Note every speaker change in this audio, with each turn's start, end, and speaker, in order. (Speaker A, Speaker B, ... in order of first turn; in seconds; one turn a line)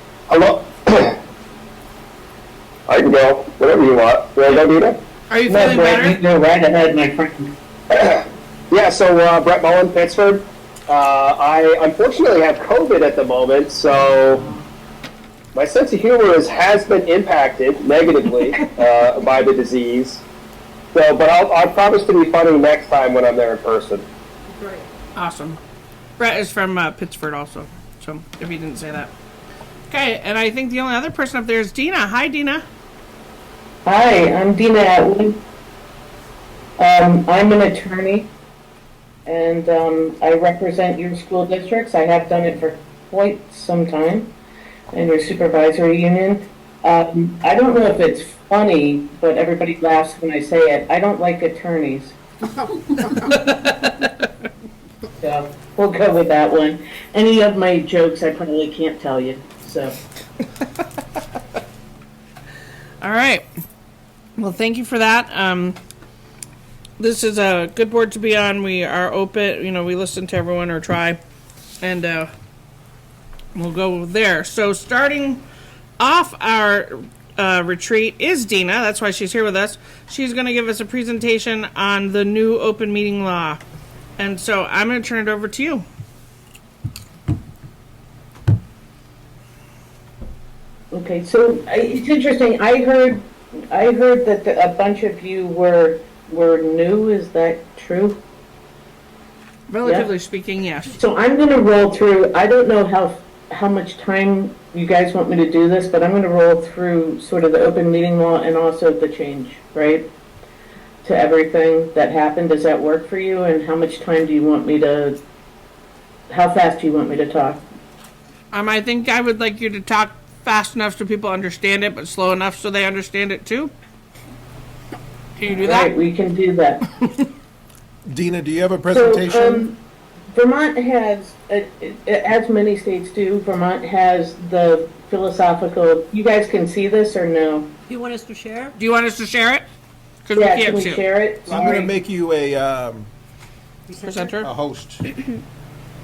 Speaker A: 0.3-1.1
Speaker A: 2.9-5.0
Speaker B: 5.3-6.2
Speaker C: 5.5-7.5
Speaker A: 7.9-14.5
Speaker A: 15.5-20.2
Speaker A: 20.9-24.0
Speaker D: 24.5-24.9
Speaker B: 25.1-25.6
Speaker B: 26.2-29.1
Speaker B: 29.9-32.6
Speaker C: 33.8-35.4
Speaker C: 36.8-38.3
Speaker C: 39.2-44.3
Speaker C: 44.9-52.2
Speaker B: 53.2-54.0
Speaker C: 55.2-60.0
Speaker B: 63.0-63.4
Speaker B: 64.4-65.8
Speaker B: 67.0-71.2
Speaker B: 71.8-72.3
Speaker B: 73.5-75.4
Speaker B: 76.0-83.6
Speaker B: 84.2-85.8
Speaker C: 90.9-98.2
Speaker B: 99.7-101.0
Speaker C: 99.8-100.1
Speaker C: 100.9-110.1
Speaker C: 111.0-115.2
Speaker C: 116.3-117.6
Speaker B: 118.5-123.7
Speaker B: 125.4-125.9
Speaker C: 125.5-126.9
Speaker E: 128.1-129.7
Speaker C: 128.9-129.8
Speaker C: 130.3-137.7
Speaker D: 137.9-138.8
Speaker B: 138.8-139.7
Speaker B: 140.2-141.0
Speaker C: 140.3-141.9
Speaker E: 141.5-143.1
Speaker D: 143.9-144.4
Speaker B: 144.0-144.5
Speaker E: 144.4-145.1